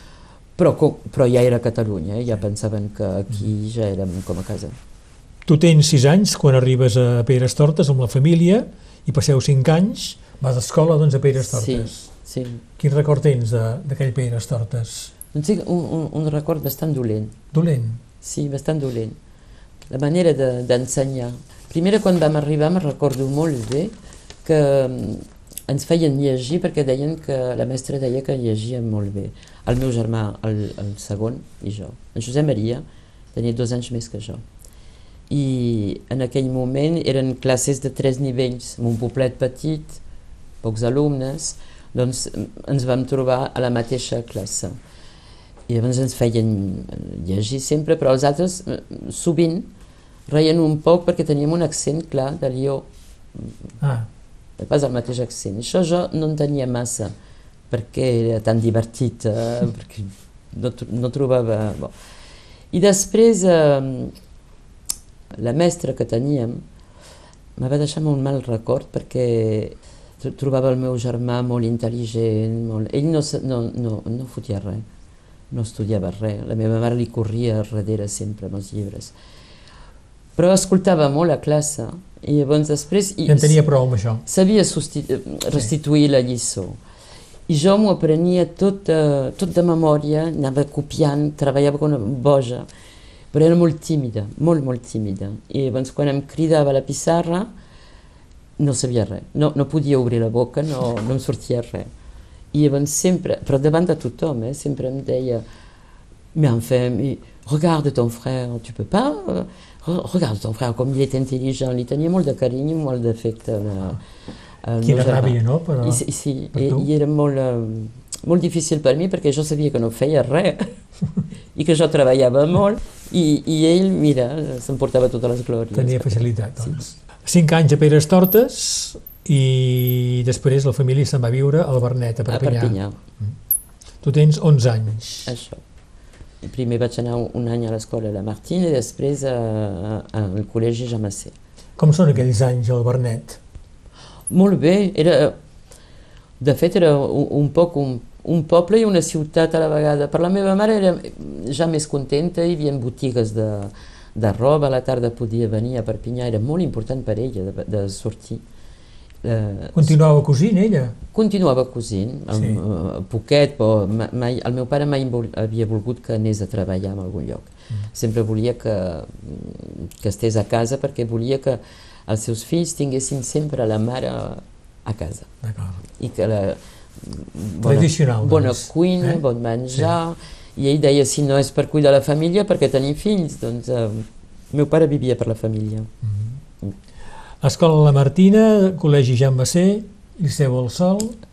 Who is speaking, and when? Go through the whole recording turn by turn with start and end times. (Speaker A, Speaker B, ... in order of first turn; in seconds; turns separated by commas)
Speaker A: 0.6-4.8, Speaker B: 5.5-12.1, Speaker A: 11.4-12.6, Speaker B: 12.8-15.1, Speaker A: 15.3-17.4, Speaker B: 17.5-18.0, Speaker A: 18.2-19.2, Speaker A: 19.9-23.9, Speaker A: 24.4-34.4, Speaker A: 35.3-40.0, Speaker A: 40.6-44.8, Speaker A: 45.7-49.7, Speaker A: 50.3-53.5, Speaker B: 53.8-54.1, Speaker A: 54.6-57.1, Speaker A: 57.7-61.9, Speaker A: 62.7-64.2, Speaker A: 65.3-66.6, Speaker A: 67.6-74.9, Speaker A: 75.5-79.1, Speaker A: 80.4-83.6, Speaker B: 83.3-84.2, Speaker A: 84.2-86.8, Speaker A: 87.5-92.7, Speaker A: 93.3-97.5, Speaker A: 98.6-101.9, Speaker A: 102.5-105.5, Speaker A: 106.3-114.0, Speaker A: 114.6-120.7, Speaker B: 114.8-116.0, Speaker B: 116.5-116.9, Speaker A: 121.5-126.8, Speaker B: 125.7-133.3, Speaker A: 132.3-133.0, Speaker B: 134.0-135.3, Speaker A: 135.3-135.6, Speaker A: 136.4-141.3, Speaker B: 141.8-143.4, Speaker A: 144.3-145.4, Speaker A: 146.4-158.4, Speaker A: 159.2-160.0, Speaker B: 159.8-160.9, Speaker A: 161.1-175.3, Speaker B: 162.3-162.6, Speaker B: 175.4-175.8, Speaker A: 176.0-185.9, Speaker B: 177.6-179.2, Speaker B: 186.1-186.3, Speaker B: 187.4-191.2